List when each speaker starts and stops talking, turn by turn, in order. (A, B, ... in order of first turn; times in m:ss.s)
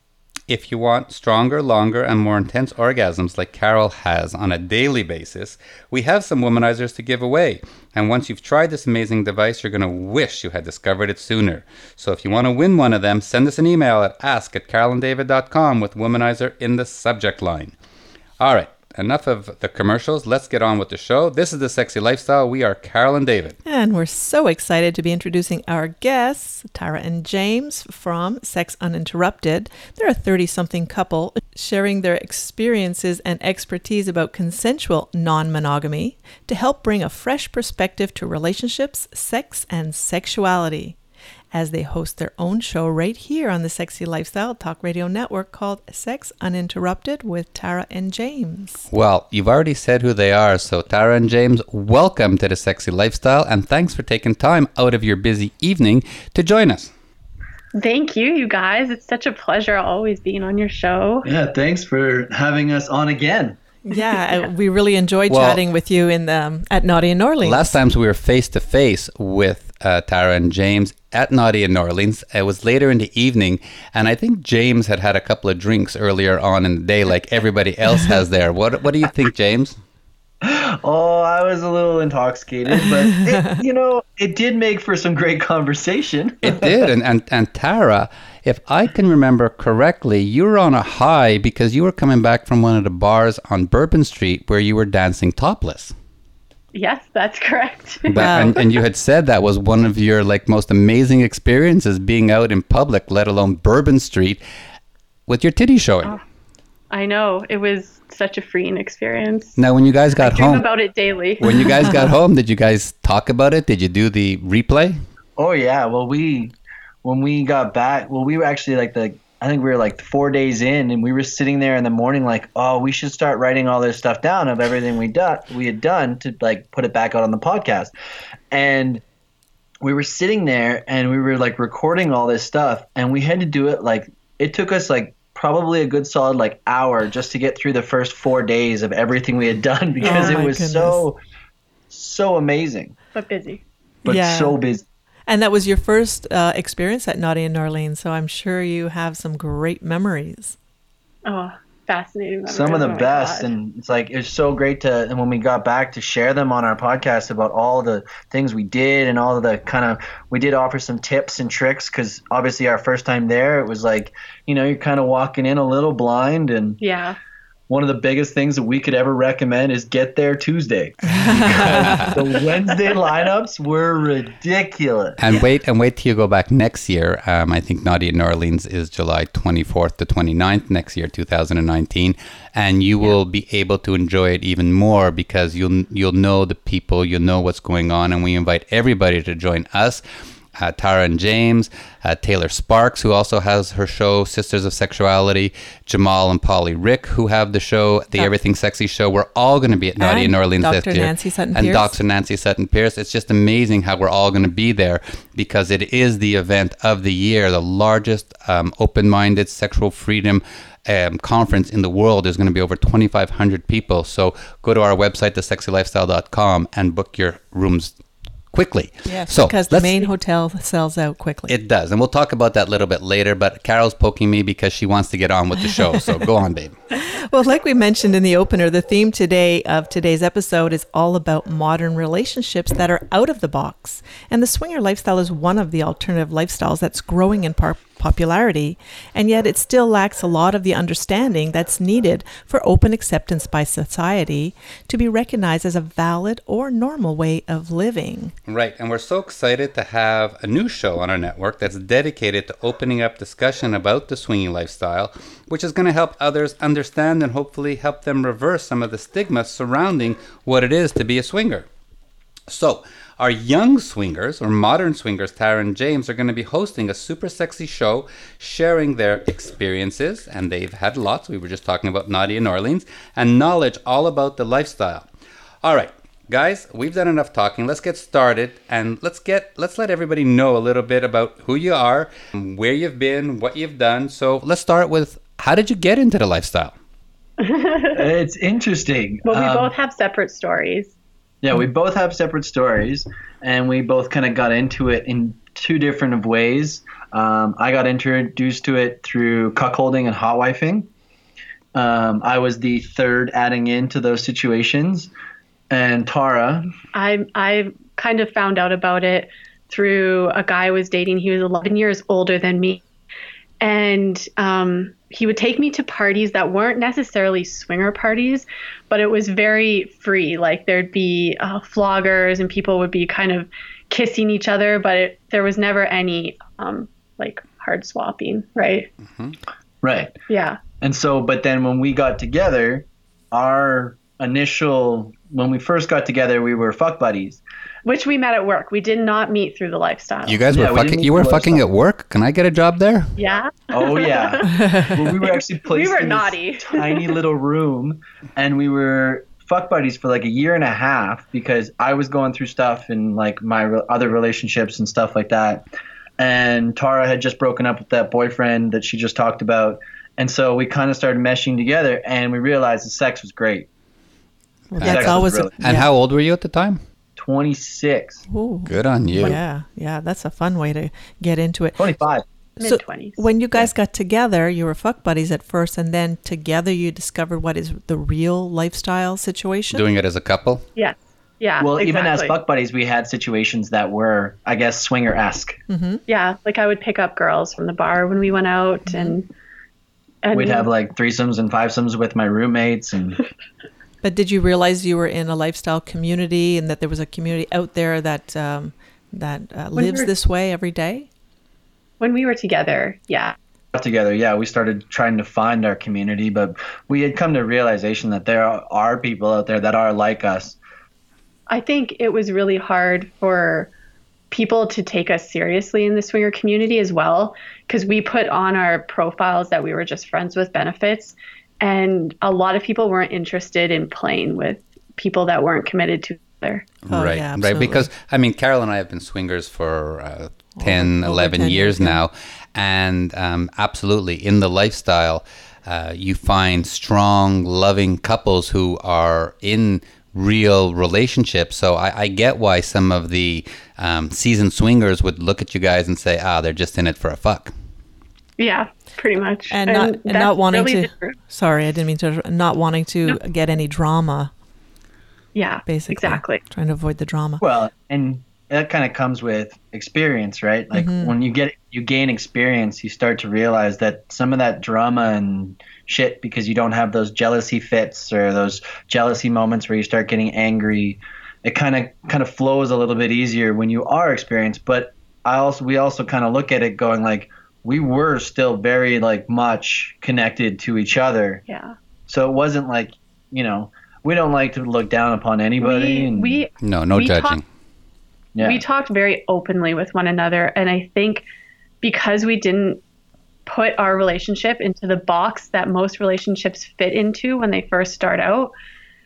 0:00.5-0:17.7 A
0:18.4-0:23.6 A
0:23.6-0:41.0 B
0:41.5-0:48.9 B
0:48.9-0:56.9 A
0:57.8-1:01.3 C
1:01.2-1:03.6 D
1:03.8-1:07.8 B
1:05.3-1:05.6 A
1:07.4-1:19.8 A
1:20.4-1:26.7 D
1:26.4-1:35.9 A
1:36.7-1:38.5 C
1:38.1-1:44.4 A
1:38.2-1:38.6 B
1:45.3-1:46.1 A
1:46.9-1:49.6 C
1:49.6-1:50.6 A
1:50.2-1:51.8 C
1:51.4-1:55.0 A
1:55.4-1:56.5 D
1:57.0-2:07.9 D
2:08.5-2:09.0 D
2:09.8-2:21.2 D
2:20.0-2:21.0 B
2:21.9-2:22.9 D
2:23.1-2:23.6 C
2:24.0-2:24.6 B
2:24.0-2:24.8 D
2:25.3-2:30.6 B
2:31.2-2:33.5 C
2:32.5-2:46.8 D
2:46.8-2:47.2 C
2:47.7-2:55.2 D
2:51.1-2:52.2 B
2:51.5-2:52.2 A
2:55.2-3:10.0 A
3:10.6-3:38.0 A
3:20.0-3:22.0 B
3:38.5-3:40.1 A
3:39.1-3:41.6 B
3:41.5-3:46.8 A
3:47.0-4:08.3 B
4:08.5-4:21.7 A
4:22.5-4:35.1 A
4:35.6-4:46.7 A
4:47.4-4:48.0 C
4:47.9-4:49.7 D
4:49.2-4:50.9 C
4:51.4-5:00.9 D
5:01.8-5:05.1 D
5:05.7-5:06.7 D
5:06.9-5:12.8 C
5:13.6-5:28.9 C
5:29.8-5:30.1 D
5:30.3-5:30.6 C
5:30.8-5:37.4 D
5:37.9-5:40.4 C
5:40.3-5:43.1 A
5:40.5-5:41.6 D
5:43.2-5:44.5 C
5:43.7-5:55.6 D
5:44.6-5:45.0 B
5:45.2-5:47.1 C
5:56.2-6:03.7 D
6:04.7-6:05.9 B
6:04.8-6:05.5 D
6:04.8-6:06.8 A
6:07.2-6:08.2 D
6:08.3-6:11.8 B
6:08.7-6:09.4 A
6:11.8-6:12.2 D
6:12.6-6:13.3 C
6:12.6-6:19.9 B
6:19.7-6:20.6 A
6:20.8-6:22.4 C
6:21.6-6:25.6 D
6:25.7-6:26.0 B
6:26.1-6:29.3 C
6:28.9-6:29.2 B
6:30.2-6:30.7 C
6:30.3-6:33.2 D
6:34.0-6:41.1 B
6:39.8-6:40.1 C
6:42.0-6:43.4 C
6:43.7-6:50.6 D
6:51.5-6:53.7 C
6:54.3-7:06.6 C
7:06.9-7:27.5 A
7:06.9-7:07.9 B
7:10.6-7:12.0 B
7:28.4-7:31.2 C
7:29.5-7:34.3 B
7:35.4-7:36.4 C
7:35.6-7:37.4 B
7:37.4-8:01.4 D
7:40.7-7:41.2 B
8:01.5-8:01.7 C
8:02.1-8:06.4 D
8:05.6-8:07.4 C
8:06.6-8:07.4 A
8:08.4-8:08.6 D
8:08.4-8:11.2 C
8:11.8-8:12.8 C
8:13.5-8:18.5 C